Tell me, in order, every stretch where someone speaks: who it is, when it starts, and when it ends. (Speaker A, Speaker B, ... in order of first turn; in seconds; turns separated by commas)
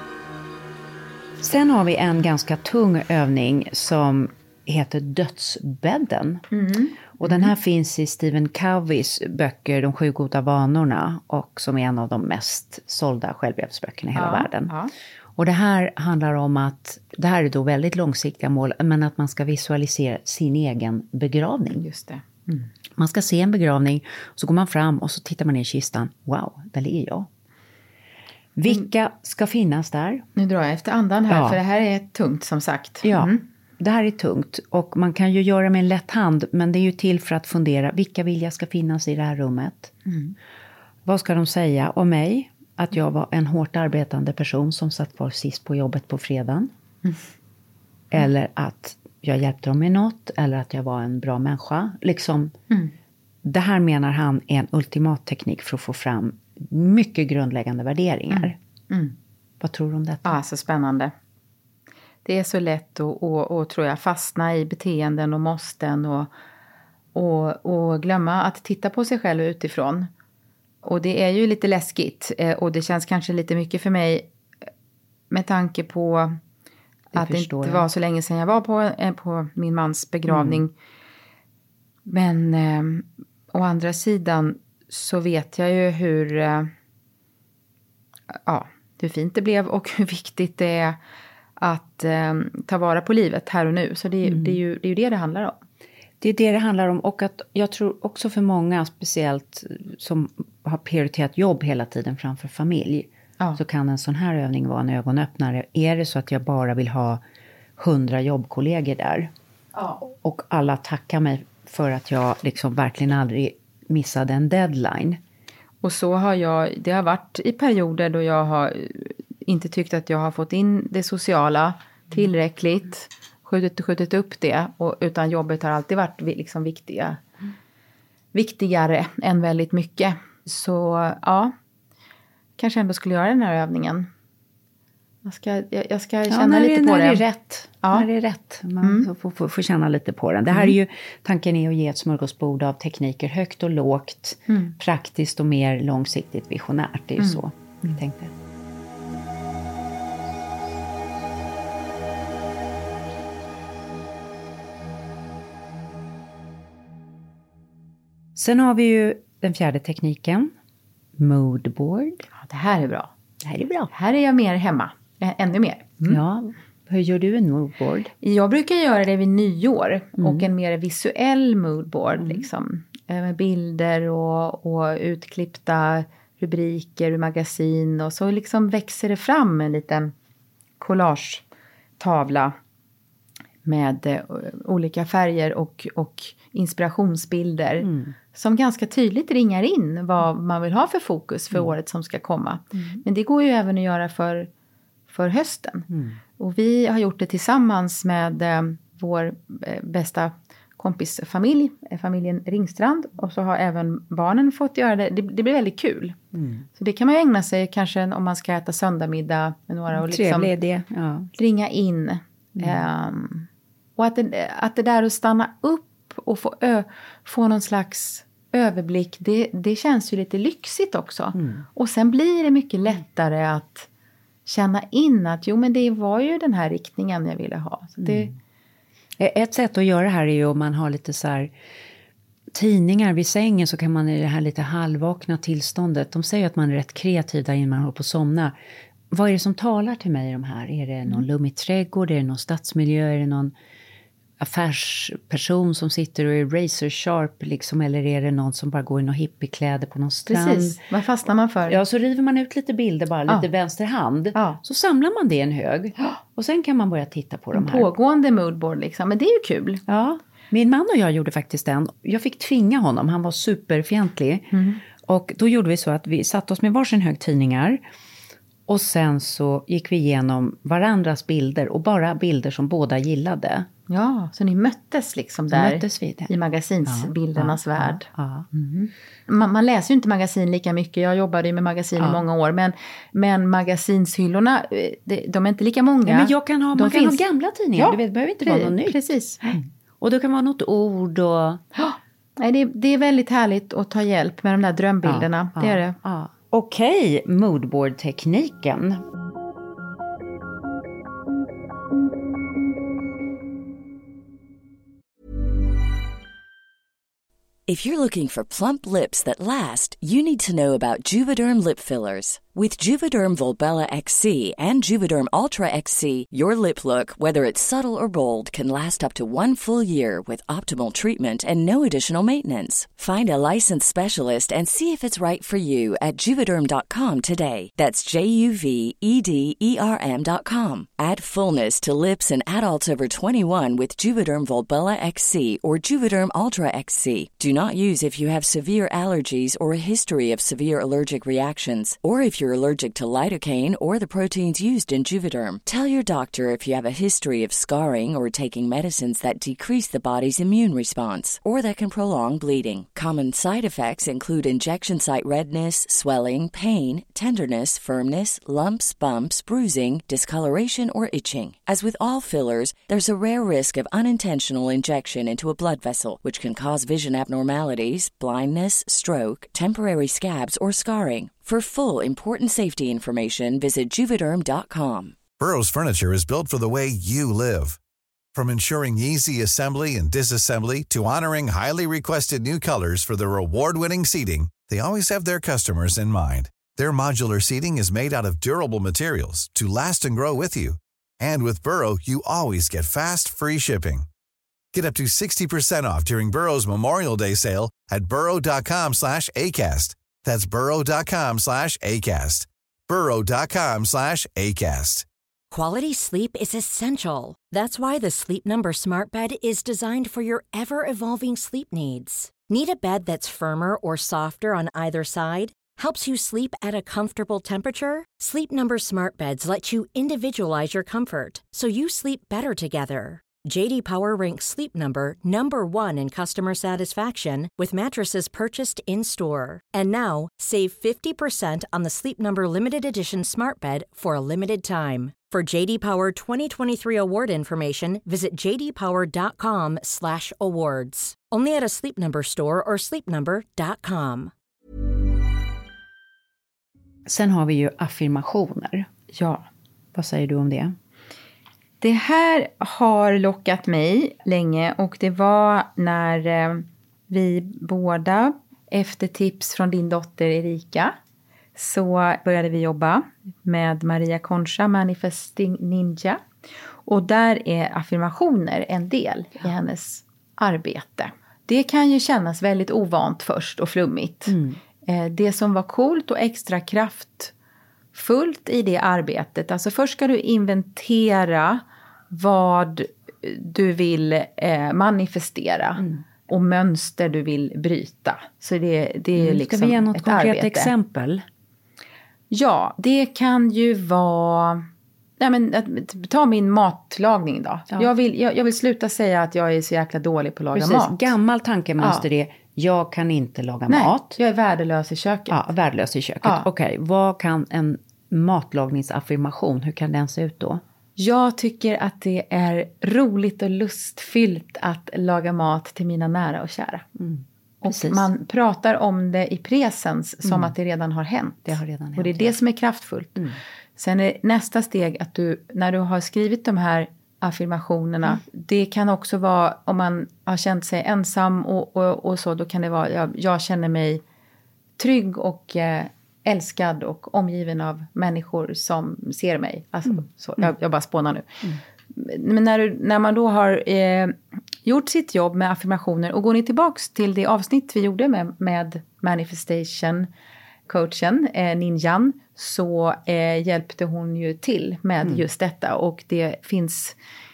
Speaker A: 1.4-6.4, Speaker B: 6.5-7.5, Speaker A: 7.2-14.7, Speaker B: 14.1-14.9, Speaker A: 15.3-21.9, Speaker B: 21.7-22.7, Speaker A: 22.9-27.3, Speaker A: 28.6-30.2, Speaker B: 30.4-33.4, Speaker A: 31.3-31.6, Speaker A: 33.0-39.9, Speaker B: 40.0-40.3, Speaker A: 41.0-46.7, Speaker A: 48.1-52.5, Speaker A: 53.4-58.5, Speaker B: 58.3-59.1, Speaker A: 59.6-60.4, Speaker B: 60.2-61.1, Speaker B: 62.2-66.3, Speaker B: 67.1-70.1, Speaker B: 70.8-74.3, Speaker B: 75.3-76.4, Speaker B: 77.1-80.7, Speaker A: 77.1-77.9, Speaker A: 80.3-80.6, Speaker B: 82.1-86.7, Speaker B: 88.3-91.0, Speaker B: 91.6-95.6, Speaker A: 94.2-94.6, Speaker A: 96.2-107.2, Speaker A: 107.8-109.3, Speaker B: 109.7-110.0, Speaker A: 110.0-115.2, Speaker B: 115.8-127.2, Speaker B: 128.3-131.5, Speaker B: 132.6-134.1, Speaker B: 135.2-137.2, Speaker A: 136.3-148.3, Speaker B: 137.8-138.1, Speaker B: 138.8-139.1, Speaker B: 140.5-140.7, Speaker B: 144.5-144.7, Speaker B: 147.2-148.0, Speaker A: 158.3-160.5, Speaker A: 161.2-162.2, Speaker B: 162.3-163.1, Speaker A: 163.4-163.9, Speaker B: 163.9-166.2, Speaker A: 166.1-168.1, Speaker B: 168.2-180.1, Speaker A: 170.2-170.5, Speaker A: 172.2-172.4, Speaker B: 180.8-181.4, Speaker B: 182.0-182.5, Speaker B: 183.6-194.5, Speaker A: 187.8-188.1, Speaker B: 195.1-195.9, Speaker A: 195.9-196.2, Speaker B: 196.4-206.2, Speaker A: 206.3-206.7, Speaker B: 206.8-210.5, Speaker A: 209.9-211.3, Speaker B: 211.3-223.9, Speaker A: 212.6-212.8, Speaker A: 221.3-221.7, Speaker B: 224.4-228.3, Speaker A: 228.0-228.3, Speaker A: 229.2-231.5, Speaker A: 232.5-238.6, Speaker A: 239.1-243.5, Speaker A: 244.4-250.8, Speaker B: 250.3-251.8, Speaker A: 251.6-257.9, Speaker B: 257.5-259.8, Speaker A: 259.9-267.8, Speaker B: 264.5-264.8, Speaker A: 268.7-273.7, Speaker B: 273.9-287.2, Speaker A: 275.5-276.3, Speaker A: 276.8-278.5, Speaker A: 286.1-291.6, Speaker B: 287.7-289.7, Speaker B: 291.7-296.0, Speaker A: 295.0-299.0, Speaker C: 307.7-375.2, Speaker D: 375.4-377.8, Speaker D: 378.3-394.1, Speaker D: 394.7-405.1, Speaker E: 405.5-444.3, Speaker A: 447.1-448.9, Speaker B: 449.1-449.5, Speaker A: 449.9-450.8, Speaker B: 451.8-460.9, Speaker B: 461.6-466.2, Speaker B: 466.9-477.3, Speaker A: 474.3-474.6, Speaker B: 477.9-490.7, Speaker A: 489.1-491.2, Speaker B: 492.3-494.6, Speaker B: 495.2-501.1, Speaker A: 500.5-504.2, Speaker B: 503.7-505.5, Speaker A: 505.3-510.6, Speaker B: 506.2-506.5, Speaker B: 511.0-516.8, Speaker A: 517.0-518.1, Speaker B: 517.6-523.2, Speaker A: 520.2-520.5, Speaker A: 521.4-522.3, Speaker B: 523.8-534.0, Speaker B: 534.8-541.4, Speaker A: 539.9-540.5, Speaker B: 541.9-550.1, Speaker B: 550.7-557.0, Speaker A: 555.0-555.2